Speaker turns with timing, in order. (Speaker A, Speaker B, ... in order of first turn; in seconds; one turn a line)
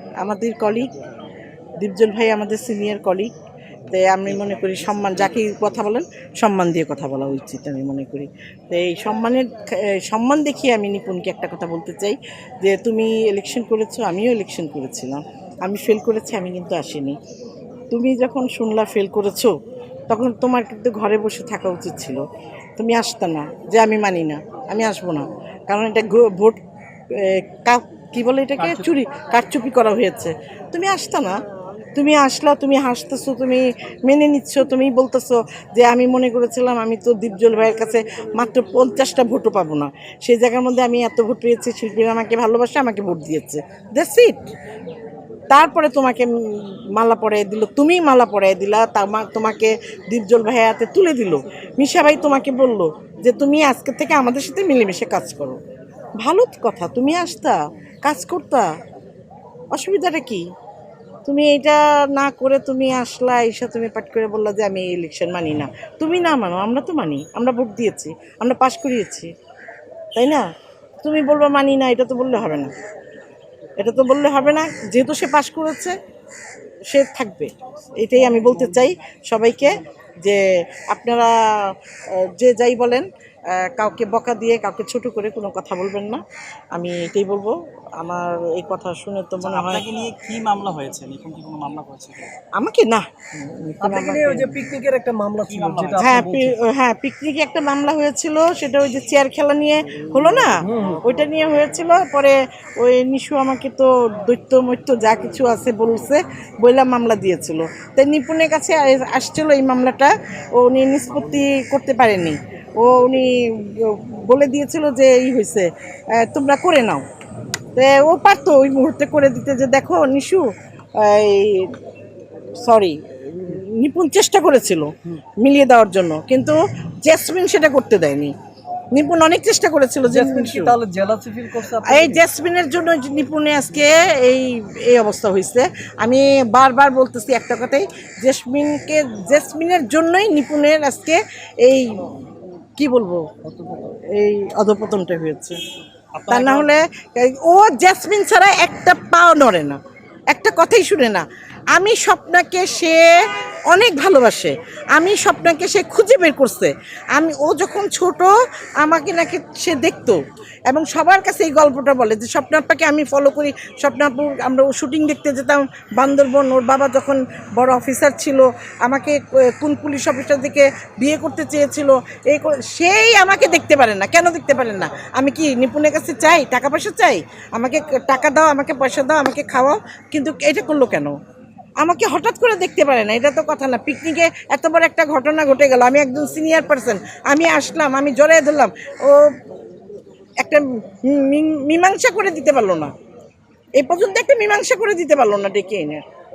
Speaker A: 0.2-0.9
Speaker A: 1.8-3.3
Speaker A: 3.9-17.2
Speaker B: 4.3-5.3
Speaker A: 17.9-19.5
Speaker A: 20.1-22.2
Speaker A: 22.8-26.6
Speaker A: 27.1-31.4
Speaker A: 31.9-44.5
Speaker A: 45.5-55.6
Speaker A: 56.2-58.7
Speaker A: 59.7-60.5
Speaker A: 61.3-69.3
Speaker A: 70.2-70.5
Speaker A: 71.0-72.7
Speaker A: 73.8-76.0
Speaker A: 76.9-86.2
Speaker A: 86.7-89.9
Speaker B: 89.4-92.3
Speaker A: 92.5-94.7
Speaker C: 93.8-96.6
Speaker B: 95.5-96.2
Speaker A: 96.0-117.0
Speaker C: 100.6-101.0
Speaker A: 117.8-120.5
Speaker A: 121.0-121.7
Speaker A: 122.6-128.3
Speaker A: 128.9-130.8
Speaker C: 130.1-132.2
Speaker A: 131.8-142.1
Speaker A: 142.8-145.6
Speaker B: 146.2-146.7
Speaker A: 146.3-149.8
Speaker A: 150.3-153.2
Speaker A: 153.7-158.3
Speaker A: 158.8-181.1
Speaker A: 181.8-189.3
Speaker A: 190.4-192.9
Speaker A: 193.8-196.0